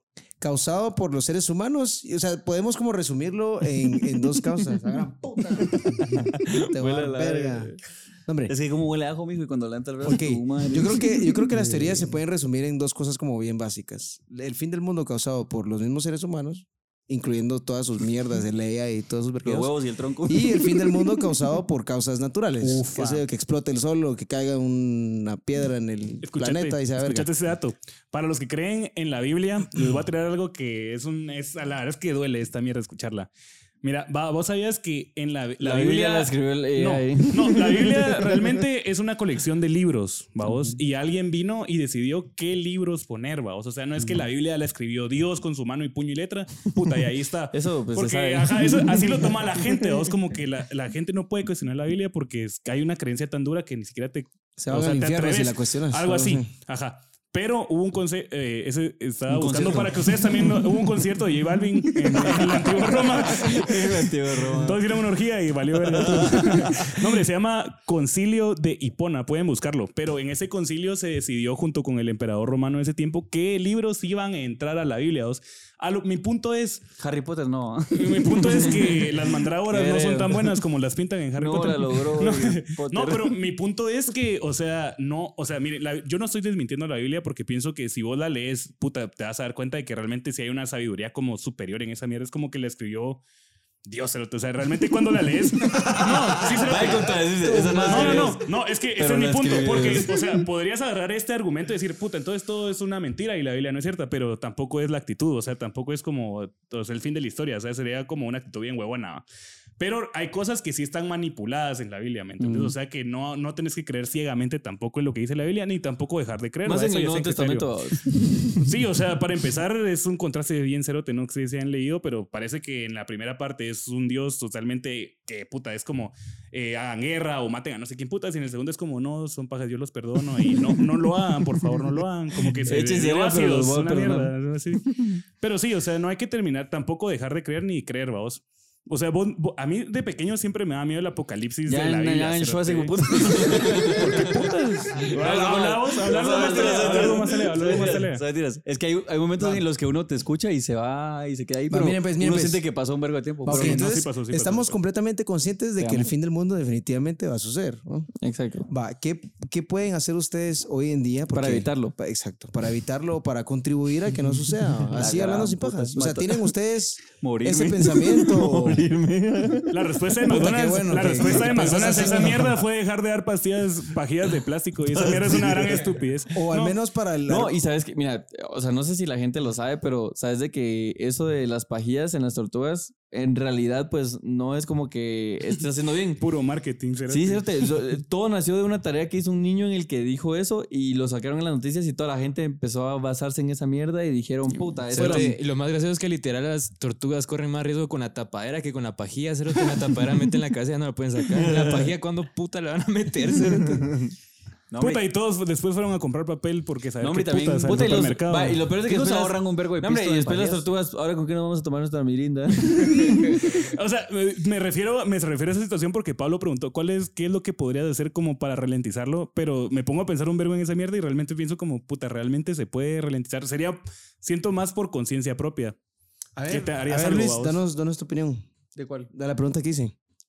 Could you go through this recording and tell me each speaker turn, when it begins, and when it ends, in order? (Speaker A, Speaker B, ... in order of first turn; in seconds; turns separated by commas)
Speaker A: 0.4-7.7, Speaker B: 6.4-7.8, Speaker A: 8.3-8.5, Speaker C: 8.5-11.9, Speaker A: 10.0-19.7, Speaker C: 19.4-20.7, Speaker A: 20.3-27.3, Speaker D: 22.6-23.2, Speaker D: 26.2-33.3, Speaker D: 33.8-76.9, Speaker B: 35.6-38.6, Speaker B: 47.5-50.0, Speaker A: 54.6-56.5, Speaker B: 59.4-60.7, Speaker B: 61.9-65.0, Speaker B: 65.9-67.1, Speaker C: 77.0-78.4, Speaker D: 77.9-93.2, Speaker B: 78.4-80.6, Speaker B: 81.4-83.3, Speaker C: 81.6-82.0, Speaker C: 82.6-83.2, Speaker D: 93.9-109.2, Speaker B: 95.9-98.5, Speaker C: 97.4-98.4, Speaker B: 99.0-100.4, Speaker D: 109.8-118.0, Speaker C: 112.4-112.7, Speaker B: 116.7-118.7, Speaker D: 118.5-148.2, Speaker B: 132.6-135.2, Speaker C: 141.7-143.2, Speaker B: 142.1-144.5, Speaker B: 145.1-148.1, Speaker C: 145.2-153.9, Speaker B: 149.4-149.7, Speaker A: 151.7-152.6, Speaker D: 153.5-154.8, Speaker A: 153.5-158.1, Speaker C: 155.8-156.1, Speaker B: 158.2-158.7, Speaker A: 158.7-168.9, Speaker B: 161.3-161.9, Speaker C: 164.9-166.5, Speaker C: 167.2-167.6, Speaker B: 167.4-170.4, Speaker D: 169.7-176.8, Speaker A: 170.2-172.6, Speaker B: 170.9-172.5, Speaker B: 175.0-176.0, Speaker A: 176.3-177.5, Speaker B: 177.3-186.2, Speaker D: 186.2-187.7, Speaker B: 187.1-195.3, Speaker E: 194.9-204.1, Speaker D: 194.9-195.3, Speaker B: 201.3-201.9, Speaker B: 203.8-204.1, Speaker C: 204.7-205.0, Speaker D: 204.8-208.7, Speaker B: 207.0-213.7, Speaker C: 208.9-210.7, Speaker D: 213.0-225.8, Speaker A: 226.4-228.4, Speaker D: 226.5-227.6, Speaker C: 228.8-229.1, Speaker A: 229.1-229.9